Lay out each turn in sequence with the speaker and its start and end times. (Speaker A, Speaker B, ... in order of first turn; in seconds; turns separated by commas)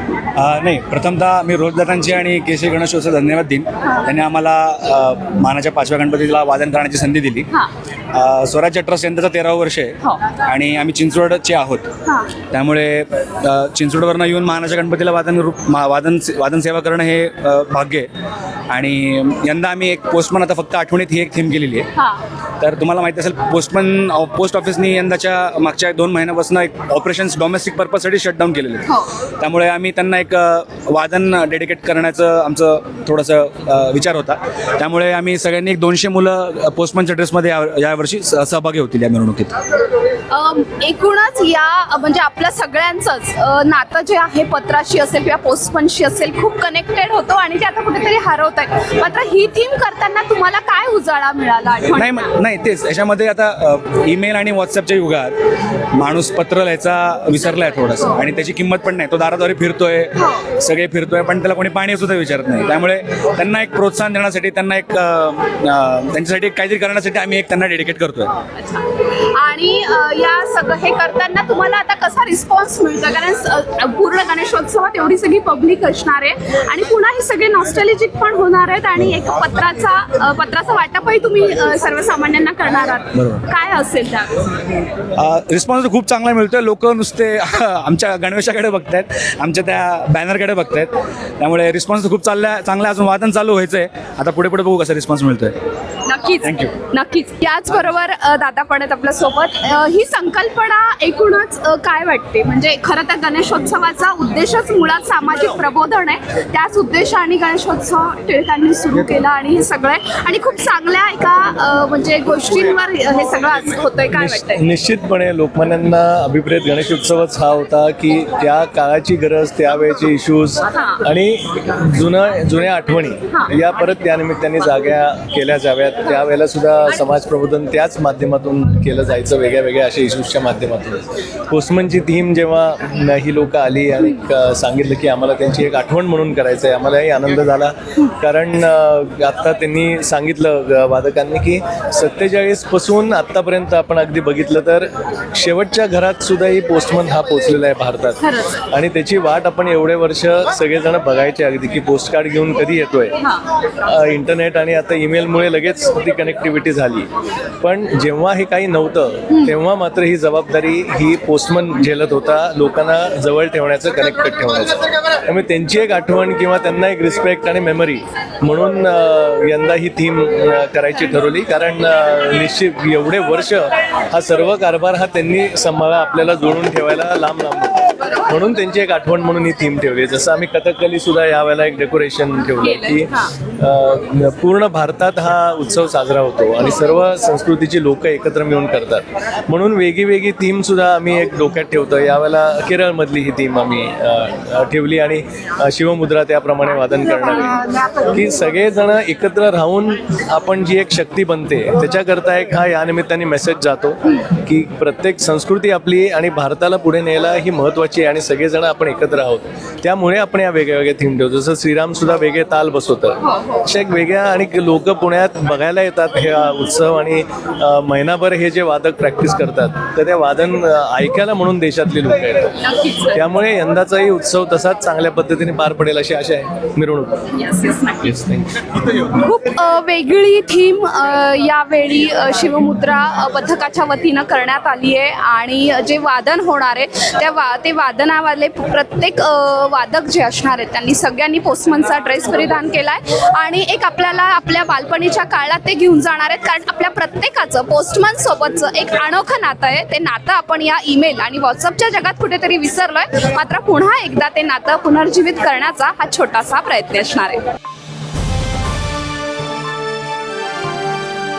Speaker A: 0.4-7.5, Speaker A: 8.1-11.9, Speaker B: 12.1-12.3, Speaker A: 12.5-18.1, Speaker A: 18.7-21.9, Speaker A: 22.6-39.6, Speaker B: 40.3-52.3, Speaker A: 51.9-55.4, Speaker A: 55.9-68.3, Speaker B: 68.5-84.4, Speaker A: 85.2-95.6, Speaker B: 96.0-114.6, Speaker A: 96.4-96.8, Speaker C: 114.1-153.2, Speaker B: 120.7-121.0, Speaker C: 153.8-157.1, Speaker C: 157.6-222.5, Speaker B: 213.3-213.6, Speaker B: 222.6-223.2, Speaker C: 223.1-227.2, Speaker B: 227.3-228.1, Speaker C: 228.0-228.7, Speaker B: 229.0-257.5